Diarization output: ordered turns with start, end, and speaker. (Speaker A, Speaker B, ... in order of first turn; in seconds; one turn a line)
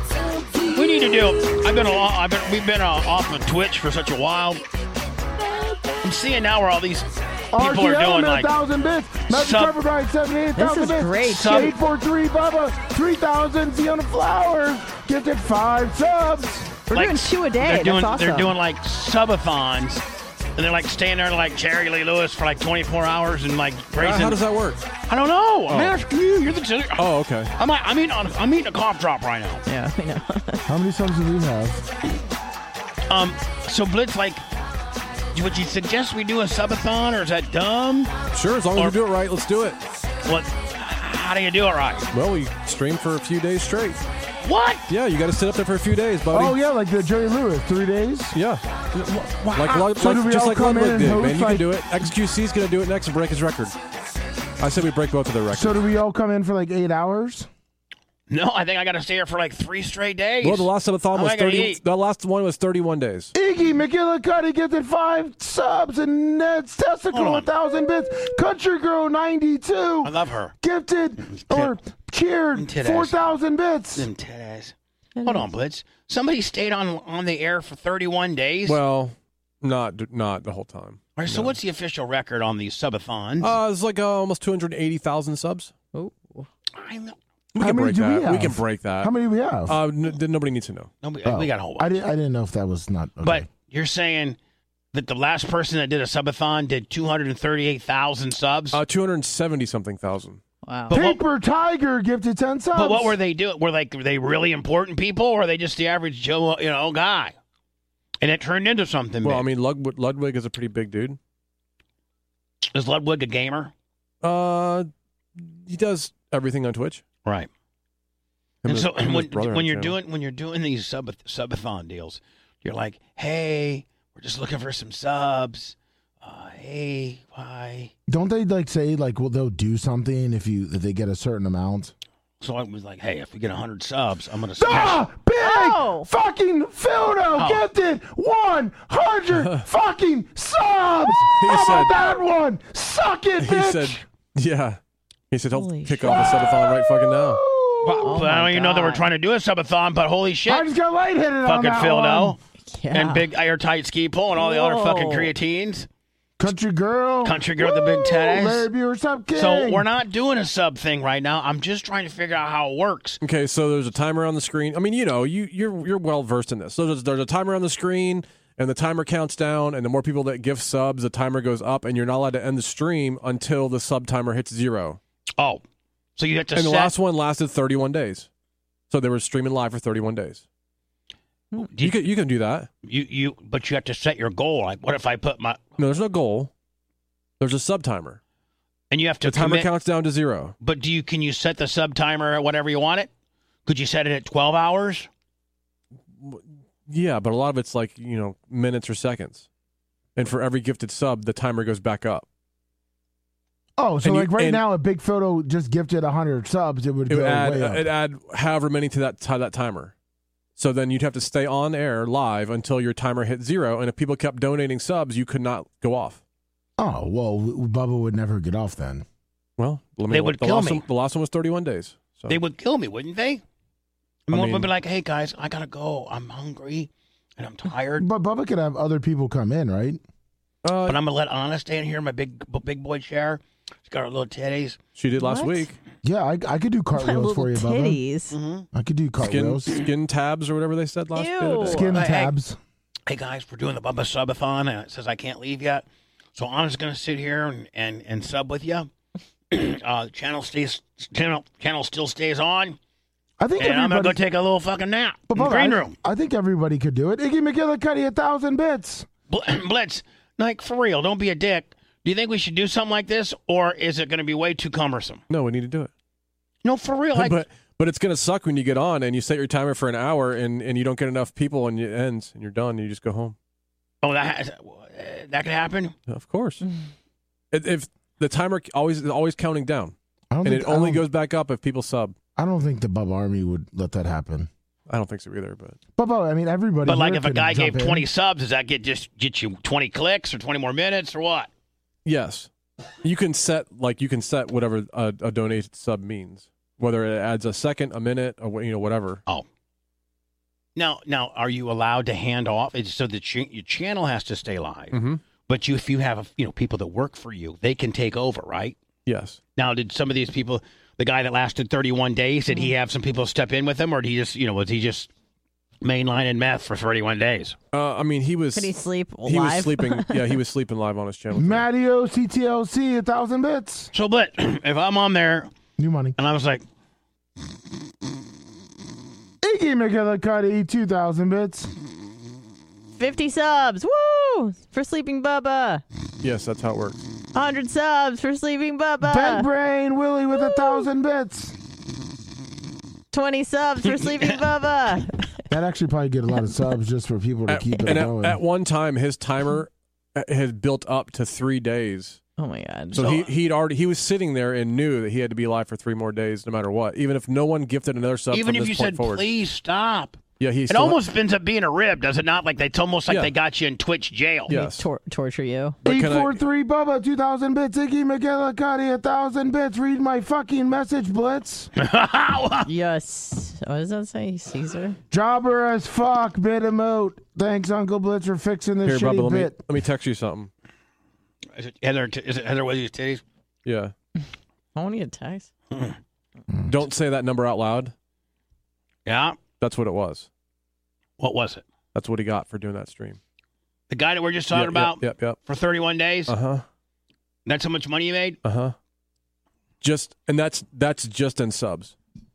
Speaker A: 0.7-4.6
Speaker A: 6.0-8.5
Speaker B: 7.5-16.8
Speaker A: 9.3-9.8
Speaker C: 10.6-11.7
Speaker A: 11.2-11.7
Speaker C: 16.9-18.5
Speaker A: 16.9-20.0
Speaker A: 20.6-24.4
Speaker D: 24.0-24.8
Speaker A: 25.1-29.6
Speaker D: 25.7-26.0
Speaker D: 27.0-27.5
Speaker C: 29.7-30.6
Speaker B: 30.7-31.8
Speaker A: 33.1-34.4
Speaker A: 35.3-38.1
Speaker D: 38.3-39.8
Speaker A: 40.2-42.1
Speaker D: 42.1-44.0
Speaker A: 44.4-44.9
Speaker D: 44.9-46.5
Speaker B: 46.3-48.4
Speaker D: 48.3-48.6
Speaker B: 49.3-51.7
Speaker D: 49.5-53.7
Speaker D: 54.6-55.8
Speaker B: 55.5-57.5
Speaker A: 58.3-61.8
Speaker D: 60.4-63.3
Speaker B: 63.3-74.1
Speaker A: 67.1-67.5
Speaker A: 70.0-70.5
Speaker A: 71.2-71.7
Speaker A: 72.5-73.1
Speaker A: 74.0-78.8
Speaker C: 75.2-75.5
Speaker D: 78.7-81.5
Speaker A: 81.2-83.5
Speaker D: 83.4-85.7
Speaker C: 85.9-86.5
Speaker A: 86.8-87.2
Speaker D: 87.5-89.1
Speaker B: 87.6-89.8
Speaker D: 89.7-90.9
Speaker A: 91.0-92.0
Speaker B: 91.2-93.5
Speaker A: 93.2-94.4
Speaker A: 94.9-98.8
Speaker D: 98.7-100.4
Speaker C: 100.6-100.9
Speaker A: 100.9-101.2
Speaker B: 100.9-103.2
Speaker A: 102.7-107.3
Speaker A: 108.2-109.5
Speaker D: 109.2-111.2
Speaker A: 112.7-113.7
Speaker D: 114.2-117.0
Speaker D: 118.6-120.0
Speaker A: 118.6-127.9
Speaker B: 128.1-131.9
Speaker A: 132.4-135.0
Speaker B: 134.6-144.0
Speaker C: 135.4-136.1
Speaker A: 137.4-137.6
Speaker D: 141.3-141.9
Speaker D: 143.4-144.8
Speaker D: 145.3-147.4
Speaker C: 145.5-146.3
Speaker B: 146.2-148.2
Speaker A: 147.8-150.7
Speaker C: 148.0-149.1
Speaker B: 150.4-152.4
Speaker A: 151.4-152.4
Speaker C: 152.7-153.3
Speaker A: 152.9-155.9
Speaker C: 154.3-155.3
Speaker B: 156.4-159.8
Speaker A: 157.2-158.7
Speaker A: 159.3-163.2
Speaker D: 163.2-175.0
Speaker A: 175.4-175.6
Speaker A: 176.2-176.9
Speaker D: 176.5-178.3
Speaker D: 178.9-180.4
Speaker A: 181.6-182.0
Speaker D: 181.8-182.7
Speaker A: 182.8-185.6
Speaker D: 185.8-186.5
Speaker D: 187.4-188.2
Speaker A: 188.9-189.7
Speaker D: 189.2-190.5
Speaker A: 190.6-193.1
Speaker A: 193.7-195.1
Speaker D: 196.2-199.4
Speaker D: 200.2-202.2
Speaker B: 203.8-207.9
Speaker D: 204.0-204.6
Speaker D: 207.1-209.9
Speaker D: 210.6-216.2
Speaker B: 216.8-219.0
Speaker D: 219.6-222.4
Speaker A: 220.1-220.8
Speaker A: 222.3-223.4
Speaker A: 224.3-228.1
Speaker D: 224.3-224.7
Speaker B: 228.0-230.0
Speaker D: 230.6-231.0
Speaker A: 230.8-234.8
Speaker D: 234.9-235.8
Speaker C: 235.2-235.7
Speaker B: 236.0-238.0
Speaker C: 237.0-238.3
Speaker A: 238.3-238.7
Speaker B: 238.7-239.7
Speaker D: 239.2-241.9
Speaker C: 241.1-241.8
Speaker B: 241.6-242.6
Speaker A: 241.9-242.3
Speaker A: 243.1-248.9
Speaker A: 249.5-252.8
Speaker B: 253.4-254.2
Speaker A: 253.6-255.9
Speaker B: 255.3-259.1
Speaker A: 259.3-265.2
Speaker D: 265.3-265.9
Speaker A: 266.6-267.4
Speaker D: 267.1-273.3
Speaker A: 274.0-275.9
Speaker D: 276.1-276.6
Speaker D: 277.5-282.1
Speaker B: 280.3-281.0
Speaker B: 282.4-284.5
Speaker D: 284.9-285.8
Speaker B: 285.9-288.1
Speaker A: 286.9-291.5
Speaker D: 292.0-292.5
Speaker D: 293.0-299.2
Speaker A: 300.8-308.8
Speaker D: 304.9-305.2
Speaker D: 309.1-309.4
Speaker A: 309.6-315.1
Speaker A: 315.8-317.6
Speaker D: 317.7-318.7
Speaker C: 318.5-320.3
Speaker D: 319.2-321.6
Speaker B: 321.3-323.9
Speaker A: 323.9-325.5
Speaker B: 325.8-326.2
Speaker A: 326.2-326.6
Speaker B: 329.4-331.7
Speaker C: 332.9-335.8
Speaker D: 336.2-337.1
Speaker C: 337.3-339.5
Speaker B: 339.0-341.6
Speaker C: 340.4-340.8
Speaker C: 343.1-345.3
Speaker A: 344.0-344.4
Speaker B: 345.5-348.4
Speaker D: 347.5-352.2
Speaker C: 352.4-353.2
Speaker D: 352.9-359.3
Speaker A: 353.0-353.2
Speaker A: 358.3-364.5
Speaker D: 360.4-361.0
Speaker D: 364.5-364.9
Speaker C: 364.5-365.8
Speaker D: 365.8-366.4
Speaker B: 365.8-371.7
Speaker A: 371.8-372.7
Speaker C: 372.6-375.0
Speaker B: 375.1-379.6
Speaker D: 378.8-380.5
Speaker A: 381.5-383.2
Speaker D: 383.6-383.9
Speaker C: 384.7-385.5
Speaker A: 385.7-386.0
Speaker D: 386.7-387.9
Speaker A: 389.1-389.4
Speaker D: 389.6-390.3
Speaker A: 391.2-391.6
Speaker D: 391.9-393.2
Speaker A: 393.9-396.3
Speaker D: 394.5-395.4
Speaker D: 396.3-396.6
Speaker A: 397.4-398.4
Speaker D: 398.4-398.7
Speaker D: 399.8-401.9